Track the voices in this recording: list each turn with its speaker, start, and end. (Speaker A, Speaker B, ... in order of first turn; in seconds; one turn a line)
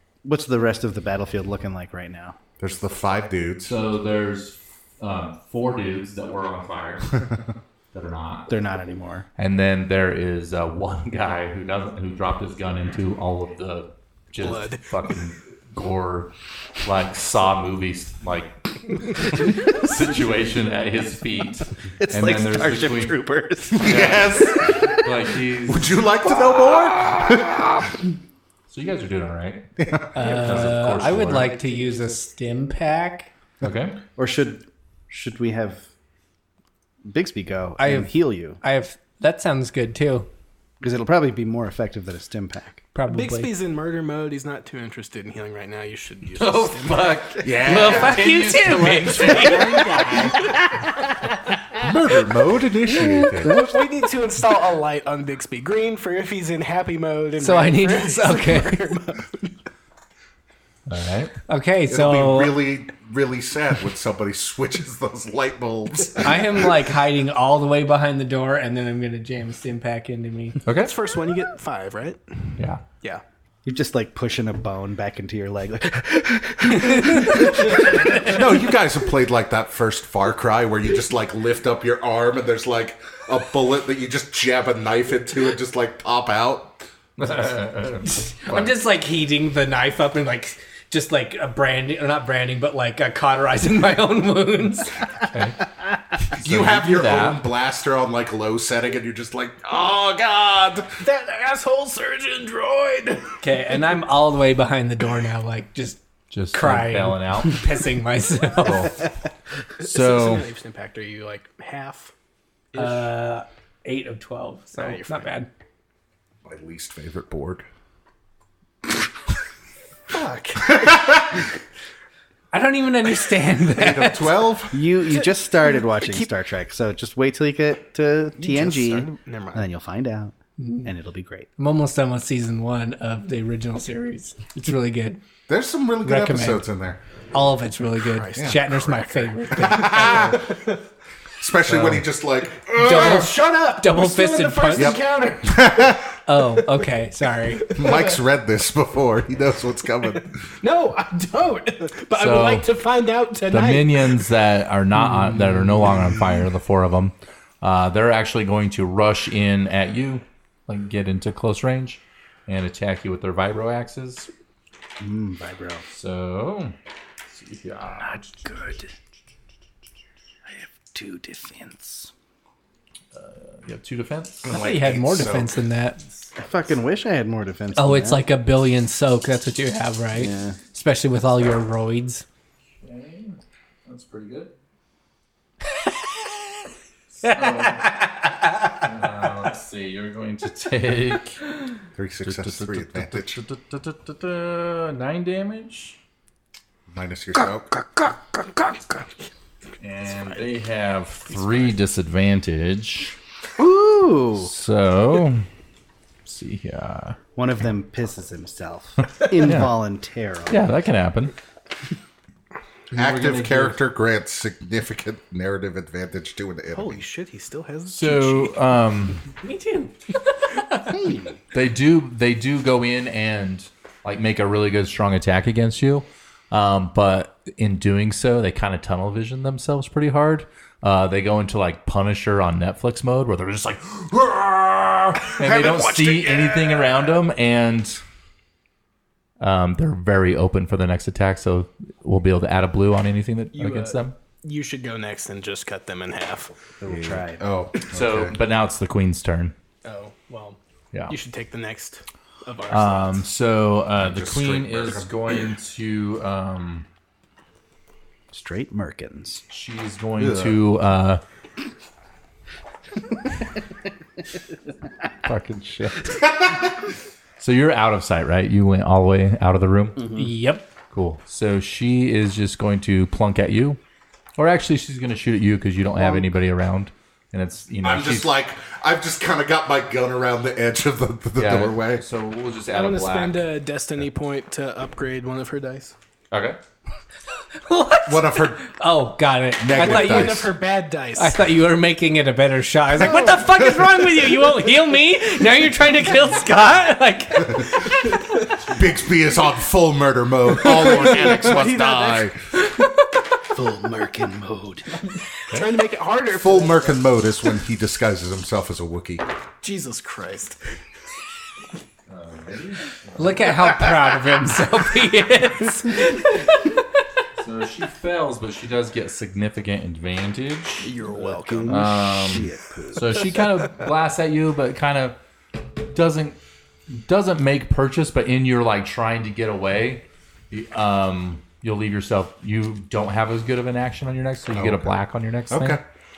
Speaker A: 0.2-2.4
Speaker B: 2.6-3.8
Speaker C: 3.6-7.3
Speaker C: 7.9-8.5
Speaker A: 8.5-9.3
Speaker C: 9.4-23.2
Speaker D: 14.4-14.9
Speaker A: 22.0-24.9
Speaker B: 23.8-25.0
Speaker C: 23.8-26.0
Speaker B: 25.7-27.7
Speaker A: 26.4-27.5
Speaker C: 28.7-31.5
Speaker B: 29.8-30.7
Speaker E: 30.1-33.3
Speaker C: 33.6-34.0
Speaker A: 34.2-35.9
Speaker A: 37.0-38.6
Speaker E: 37.8-40.3
Speaker A: 40.8-42.8
Speaker E: 43.0-43.5
Speaker D: 43.1-47.4
Speaker C: 46.4-50.3
Speaker B: 47.4-48.2
Speaker E: 47.6-50.3
Speaker D: 49.3-50.8
Speaker B: 51.8-53.6
Speaker E: 53.2-53.6
Speaker D: 53.4-59.5
Speaker E: 57.4-58.9
Speaker C: 60.9-61.3
Speaker E: 61.5-62.6
Speaker B: 61.9-66.8
Speaker E: 66.2-70.6
Speaker C: 70.7-70.9
Speaker D: 70.8-72.2
Speaker C: 72.6-72.8
Speaker A: 73.7-78.4
Speaker E: 76.9-77.3
Speaker B: 78.1-86.8
Speaker C: 87.2-88.7
Speaker E: 88.0-95.1
Speaker C: 95.3-95.6
Speaker C: 96.2-97.4
Speaker B: 96.4-101.0
Speaker D: 101.0-103.4
Speaker E: 103.4-109.0
Speaker C: 106.3-107.6
Speaker C: 108.6-109.0
Speaker D: 109.8-112.1
Speaker C: 110.0-110.4
Speaker D: 112.7-113.1
Speaker E: 112.8-115.5
Speaker D: 114.8-115.3
Speaker B: 116.5-117.7
Speaker D: 120.1-121.3
Speaker E: 122.5-124.4
Speaker B: 123.7-124.8
Speaker A: 124.7-131.5
Speaker D: 125.1-126.3
Speaker D: 128.4-129.7
Speaker E: 130.6-130.9
Speaker E: 131.6-135.2
Speaker B: 135.5-137.0
Speaker E: 136.0-136.7
Speaker E: 137.3-140.4
Speaker D: 138.1-140.8
Speaker B: 138.4-138.6
Speaker B: 139.6-140.5
Speaker B: 141.4-143.3
Speaker C: 141.7-142.0
Speaker D: 142.7-146.0
Speaker E: 142.8-145.0
Speaker B: 144.8-146.2
Speaker E: 146.3-147.7
Speaker D: 147.7-148.2
Speaker B: 147.8-150.5
Speaker D: 150.6-154.3
Speaker C: 152.1-152.7
Speaker C: 153.5-164.3
Speaker A: 155.2-156.1
Speaker A: 165.0-165.8
Speaker C: 165.9-166.8
Speaker C: 167.3-168.5
Speaker A: 168.0-168.9
Speaker A: 170.5-172.1
Speaker C: 173.1-174.5
Speaker B: 174.4-175.6
Speaker E: 174.5-176.0
Speaker A: 176.4-178.3
Speaker E: 177.8-182.2
Speaker A: 180.2-180.6
Speaker C: 182.8-184.5
Speaker C: 187.2-188.0
Speaker E: 187.2-188.1
Speaker C: 188.8-191.4
Speaker B: 192.0-193.4
Speaker C: 192.2-196.0
Speaker B: 196.9-197.7
Speaker C: 199.8-203.2
Speaker A: 203.6-204.5
Speaker C: 204.3-205.5
Speaker C: 206.3-207.2
Speaker A: 207.4-210.7
Speaker C: 209.0-209.7
Speaker C: 210.5-211.3
Speaker C: 212.9-213.8
Speaker B: 212.9-217.1
Speaker D: 216.7-218.6
Speaker C: 217.9-219.2
Speaker E: 219.4-220.8
Speaker A: 220.9-221.4
Speaker C: 221.5-238.0
Speaker B: 235.5-236.3
Speaker C: 239.4-244.2
Speaker D: 243.5-246.6
Speaker A: 246.8-247.4
Speaker B: 246.9-248.4
Speaker C: 247.9-249.6
Speaker D: 249.8-253.2
Speaker C: 252.7-256.9
Speaker B: 254.0-255.1
Speaker A: 258.3-259.4
Speaker C: 259.5-261.2
Speaker B: 260.2-260.6
Speaker C: 265.2-266.1
Speaker C: 267.4-270.1
Speaker A: 270.0-270.3
Speaker E: 270.2-270.7
Speaker C: 270.9-273.8
Speaker C: 274.4-278.3
Speaker A: 276.0-276.3
Speaker B: 277.8-282.0
Speaker C: 281.4-283.5
Speaker D: 282.7-285.9
Speaker C: 286.3-286.6
Speaker E: 287.6-290.5
Speaker B: 288.1-288.6
Speaker B: 289.6-290.6
Speaker D: 289.8-291.4
Speaker E: 291.1-298.1
Speaker B: 298.6-302.4
Speaker D: 301.4-302.0
Speaker A: 303.5-305.1
Speaker D: 305.5-307.1
Speaker B: 306.3-309.3
Speaker D: 309.6-310.8
Speaker C: 312.1-313.5
Speaker E: 313.2-317.0
Speaker C: 317.4-320.9
Speaker D: 320.8-321.9
Speaker A: 321.1-323.2
Speaker C: 321.7-335.8
Speaker B: 334.5-334.9
Speaker B: 335.5-335.8